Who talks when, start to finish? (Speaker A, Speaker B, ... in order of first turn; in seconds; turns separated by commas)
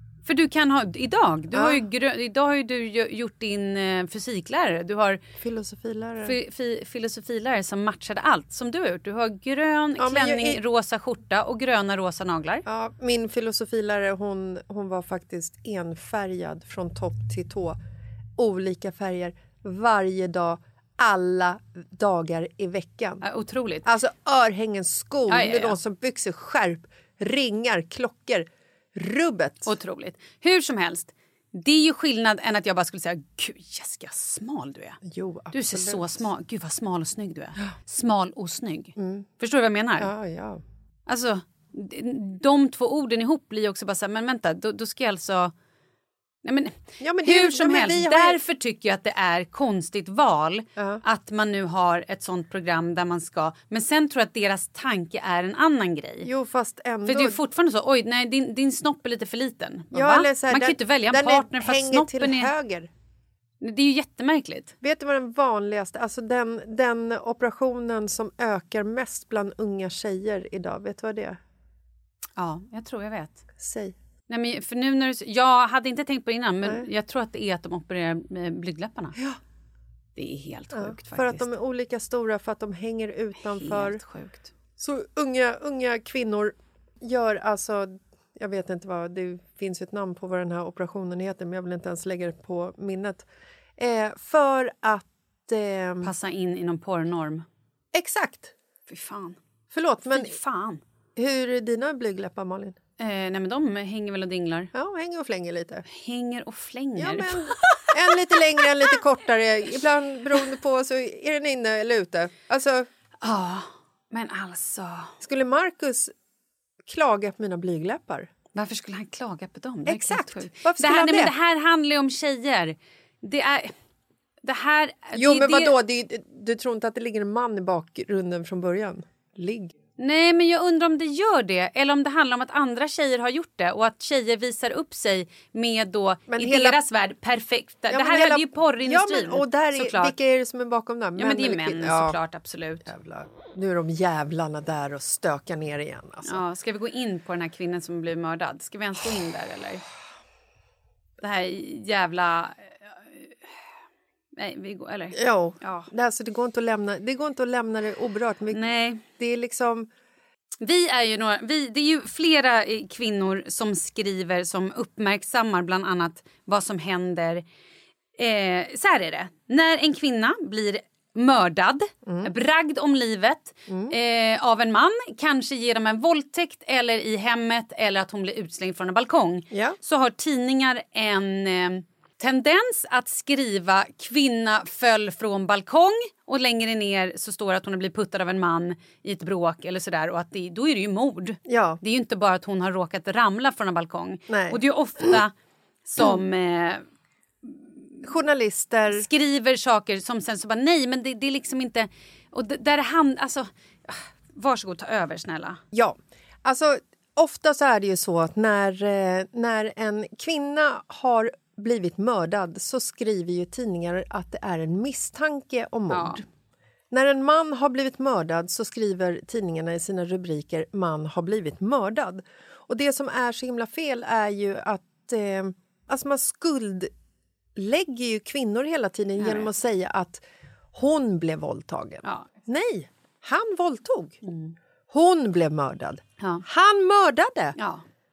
Speaker A: 0.2-5.2, Speaker B: 1.5-1.8, Speaker B: 5.4-6.3, Speaker A: 6.2-12.6, Speaker B: 10.0-10.6, Speaker B: 12.7-17.8, Speaker B: 18.4-23.2, Speaker A: 23.2-23.9, Speaker B: 23.8-29.7, Speaker A: 25.3-25.8, Speaker A: 29.6-35.0, Speaker B: 35.0-36.3, Speaker A: 35.5-40.1, Speaker B: 39.0-39.3, Speaker B: 40.0-40.6, Speaker A: 41.1-45.5, Speaker A: 46.4-56.3, Speaker B: 47.0-48.4, Speaker B: 50.8-51.0, Speaker B: 56.2-57.4, Speaker A: 57.0-62.5, Speaker B: 59.9-62.9, Speaker A: 63.6-64.7, Speaker B: 64.8-71.4, Speaker A: 72.4-73.4, Speaker B: 73.6-73.9, Speaker A: 74.3-79.2, Speaker A: 80.2-81.5, Speaker B: 80.7-84.0, Speaker A: 83.4-84.5, Speaker B: 84.8-96.1, Speaker A: 96.0-97.4, Speaker B: 97.9-98.5, Speaker A: 98.9-99.4, Speaker B: 99.7-100.4, Speaker A: 100.1-100.8, Speaker B: 101.2-102.8, Speaker A: 103.0-104.7, Speaker B: 104.7-105.8, Speaker A: 105.9-108.6, Speaker B: 107.0-112.9, Speaker A: 113.2-115.1, Speaker B: 115.2-116.1, Speaker B: 116.8-118.3, Speaker A: 118.5-123.7, Speaker B: 119.8-121.3, Speaker A: 124.4-125.7, Speaker B: 125.1-129.7, Speaker A: 130.0-140.1, Speaker B: 136.3-136.8, Speaker B: 137.9-142.2, Speaker A: 141.2-142.9, Speaker B: 142.8-146.4, Speaker A: 146.2-149.8, Speaker A: 151.2-153.3, Speaker A: 154.4-155.9, Speaker B: 155.1-159.9, Speaker A: 158.5-159.0, Speaker A: 160.6-167.4, Speaker A: 168.2-195.3, Speaker B: 172.0-172.3, Speaker B: 173.7-173.9, Speaker B: 179.5-179.8, Speaker B: 191.4-191.8, Speaker B: 194.3-195.2, Speaker A: 195.8-196.8, Speaker B: 198.0-199.1, Speaker A: 198.9-205.6, Speaker B: 205.7-216.2, Speaker A: 215.9-216.2, Speaker B: 216.9-226.9, Speaker B: 227.6-234.2, Speaker A: 229.2-229.5, Speaker A: 234.2-234.6, Speaker B: 234.9-237.6, Speaker A: 237.6-237.8